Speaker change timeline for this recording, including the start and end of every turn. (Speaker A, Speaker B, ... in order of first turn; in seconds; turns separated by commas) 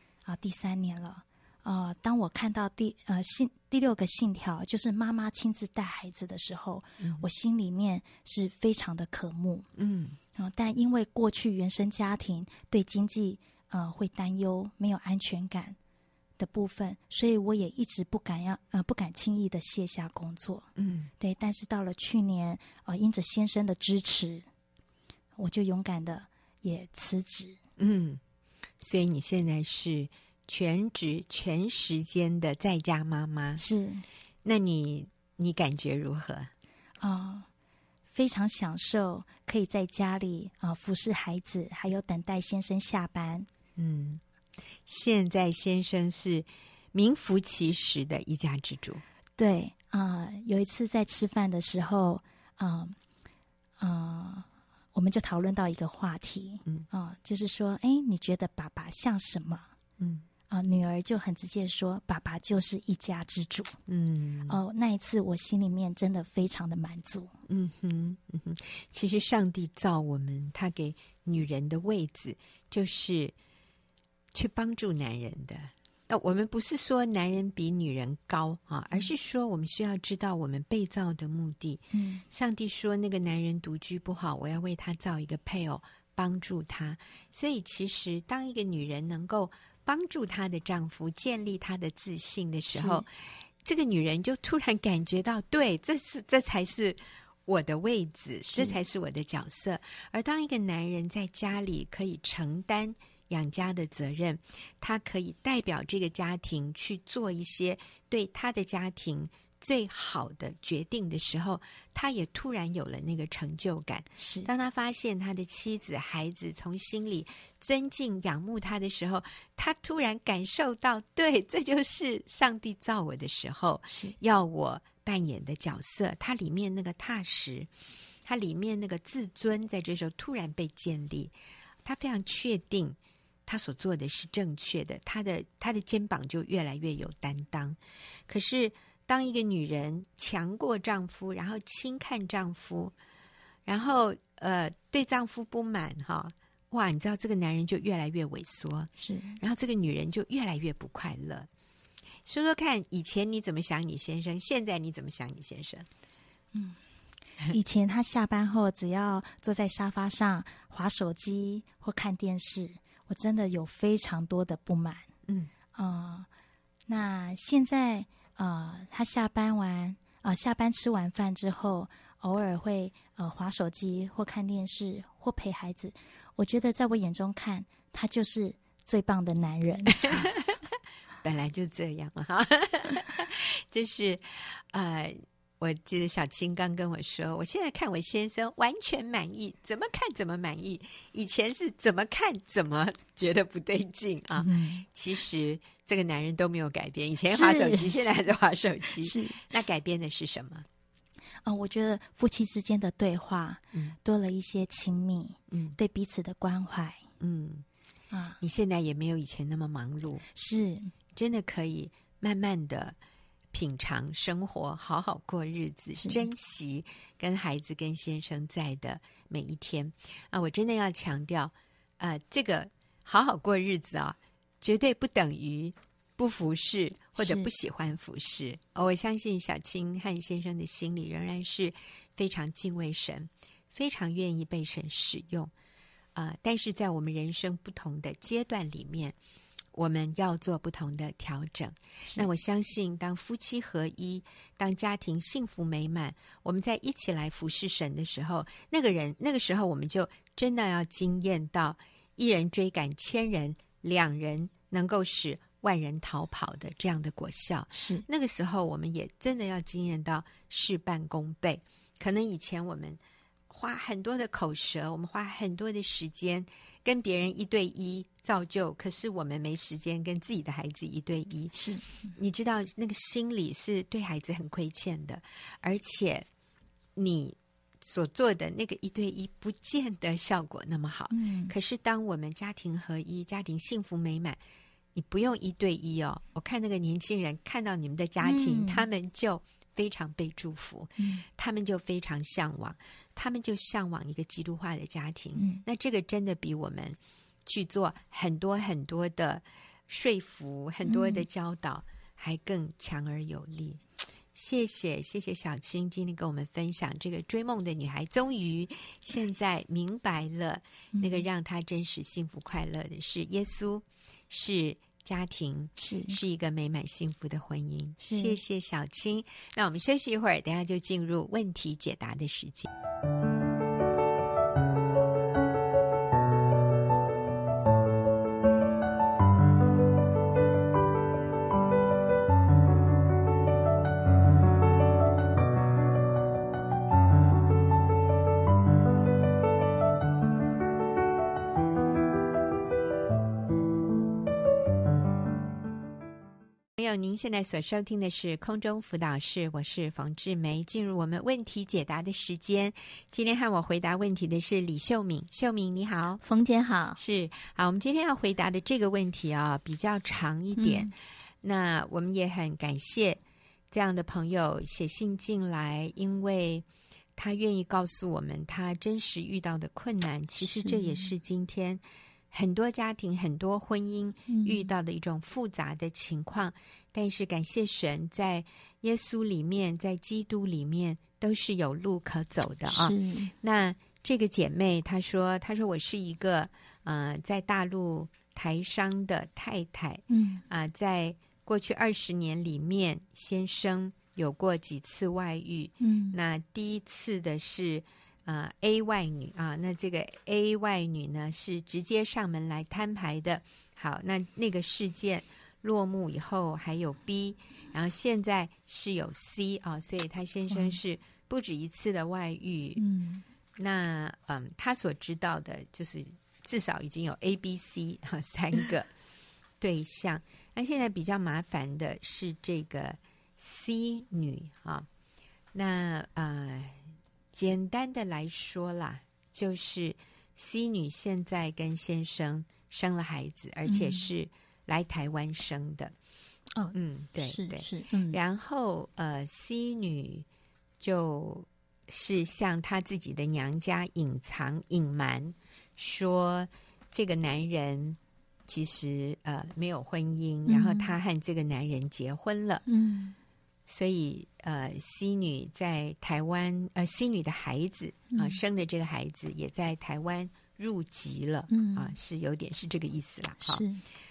Speaker A: 0.2-9.7, Speaker B: 7.0-7.3, Speaker B: 9.8-10.2, Speaker A: 10.3-15.8, Speaker A: 16.4-20.7, Speaker B: 20.8-21.1, Speaker A: 21.2-24.4, Speaker A: 25.4-27.6, Speaker B: 27.8-28.2, Speaker B: 28.8-33.6, Speaker A: 33.6-34.0, Speaker B: 34.4-36.5, Speaker A: 37.0-37.5, Speaker A: 38.1-43.5, Speaker B: 43.8-44.2, Speaker B: 44.9-49.0, Speaker A: 49.4-53.0, Speaker A: 53.8-59.7, Speaker B: 60.0-60.2, Speaker A: 60.5-63.8, Speaker B: 63.9-64.6, Speaker A: 64.5-67.3, Speaker B: 67.5-73.3, Speaker B: 74.3-93.1, Speaker A: 81.9-82.2, Speaker A: 92.7-93.0, Speaker B: 93.6-127.7, Speaker A: 98.5-98.8, Speaker A: 114.2-114.5, Speaker A: 123.9-124.2, Speaker B: 128.2-131.3, Speaker B: 131.8-142.9, Speaker B: 143.7-151.5, Speaker A: 149.0-149.4, Speaker B: 152.2-155.9, Speaker A: 156.5-156.8, Speaker A: 157.5-165.1, Speaker A: 165.7-166.3, Speaker A: 166.9-180.3, Speaker B: 179.9-180.6, Speaker B: 181.2-200.7, Speaker A: 194.4-194.8, Speaker A: 197.2-197.9, Speaker A: 199.0-199.4, Speaker A: 201.4-207.0, Speaker B: 205.5-205.8, Speaker B: 207.2-207.6, Speaker A: 208.1-208.4, Speaker B: 208.4-210.2, Speaker A: 210.3-210.9, Speaker B: 211.1-212.9, Speaker B: 213.5-235.5, Speaker A: 216.0-216.2, Speaker A: 227.2-227.5, Speaker B: 236.1-239.2, Speaker B: 239.7-276.2, Speaker A: 257.7-258.0, Speaker A: 271.5-271.8, Speaker B: 276.9-284.4, Speaker A: 281.1-281.5, Speaker B: 284.9-303.8, Speaker A: 288.2-288.8, Speaker B: 304.3-322.7, Speaker A: 315.8-316.2, Speaker A: 318.0-318.4, Speaker B: 346.8-356.2, Speaker C: 356.2-357.0, Speaker B: 357.0-360.9, Speaker C: 360.6-360.9, Speaker B: 361.4-363.2, Speaker B: 363.7-366.6, Speaker B: 367.1-412.8, Speaker C: 370.4-371.1, Speaker C: 374.3-374.7, Speaker C: 382.7-383.3, Speaker C: 390.1-390.4, Speaker C: 395.8-396.2, Speaker C: 412.8-413.2, Speaker B: 413.6-418.9, Speaker B: 419.6-424.9, Speaker B: 425.5-435.9, Speaker C: 433.7-434.1, Speaker C: 436.5-438.2, Speaker B: 436.7-440.2, Speaker B: 440.8-452.6, Speaker C: 450.5-450.9, Speaker C: 452.6-453.1, Speaker B: 453.7-463.6, Speaker C: 458.1-458.4, Speaker C: 461.5-461.9, Speaker C: 463.4-463.8